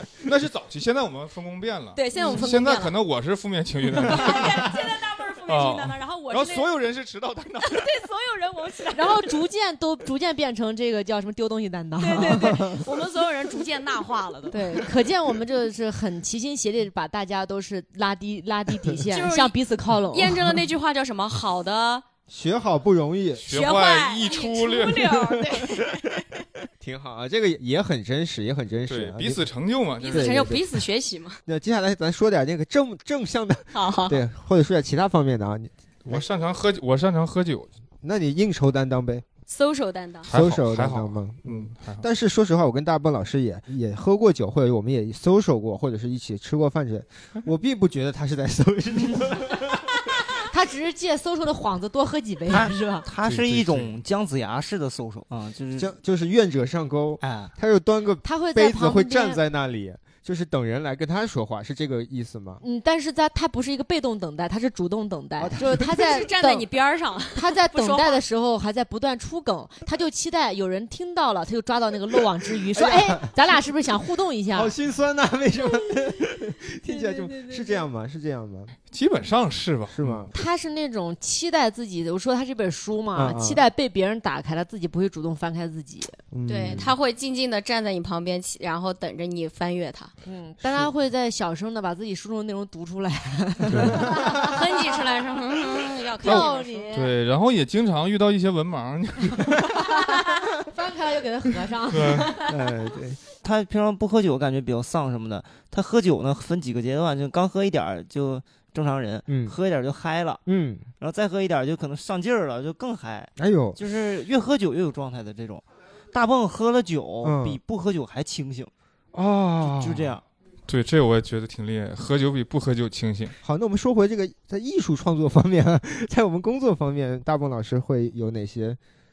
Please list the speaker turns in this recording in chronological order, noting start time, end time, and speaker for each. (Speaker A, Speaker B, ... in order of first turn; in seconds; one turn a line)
Speaker A: 0.2-4.8
Speaker B: 1.9-2.9
Speaker C: 2.1-2.6
Speaker B: 4.0-6.7
Speaker A: 5.5-7.9
Speaker B: 7.6-9.3
Speaker C: 8.9-12.7
Speaker B: 12.0-14.9
Speaker C: 14.5-20.6
Speaker B: 19.1-19.6
Speaker B: 20.1-22.1
Speaker D: 22.3-23.4
Speaker A: 23.4-25.3
Speaker B: 23.5-26.4
Speaker D: 26.8-29.4
Speaker A: 28.9-30.4
Speaker B: 30.0-31.4
Speaker D: 30.1-30.6
Speaker D: 31.4-36.2
Speaker B: 33.7-34.2
Speaker A: 36.0-37.7
Speaker D: 38.0-39.2
Speaker B: 39.5-40.3
Speaker A: 40.2-42.0
Speaker D: 40.3-50.0
Speaker C: 50.3-53.0
Speaker E: 52.5-55.9
Speaker A: 53.2-53.9
Speaker D: 55.8-62.6
Speaker E: 57.2-57.5
Speaker C: 58.2-59.4
Speaker C: 62.6-66.7
Speaker D: 65.4-65.9
Speaker B: 65.9-68.2
Speaker C: 67.3-74.7
Speaker D: 72.7-73.5
Speaker D: 74.5-78.7
Speaker C: 76.9-77.6
Speaker A: 78.9-80.3
Speaker D: 79.9-80.3
Speaker C: 80.3-86.2
Speaker D: 83.1-83.6
Speaker D: 86.3-86.9
Speaker B: 86.5-90.1
Speaker C: 90.2-94.7
Speaker D: 90.6-90.9
Speaker D: 93.7-94.3
Speaker A: 93.7-94.1
Speaker B: 94.4-96.9
Speaker C: 96.2-97.1
Speaker A: 96.2-99.8
Speaker C: 99.8-102.4
Speaker A: 101.9-102.3
Speaker D: 102.4-103.2
Speaker E: 103.4-110.4
Speaker D: 109.3-109.5
Speaker D: 110.4-110.9
Speaker E: 111.0-118.7
Speaker D: 113.4-113.8
Speaker D: 117.2-117.6
Speaker D: 119.1-120.2
Speaker E: 119.6-120.2
Speaker A: 120.7-123.3
Speaker D: 123.4-128.8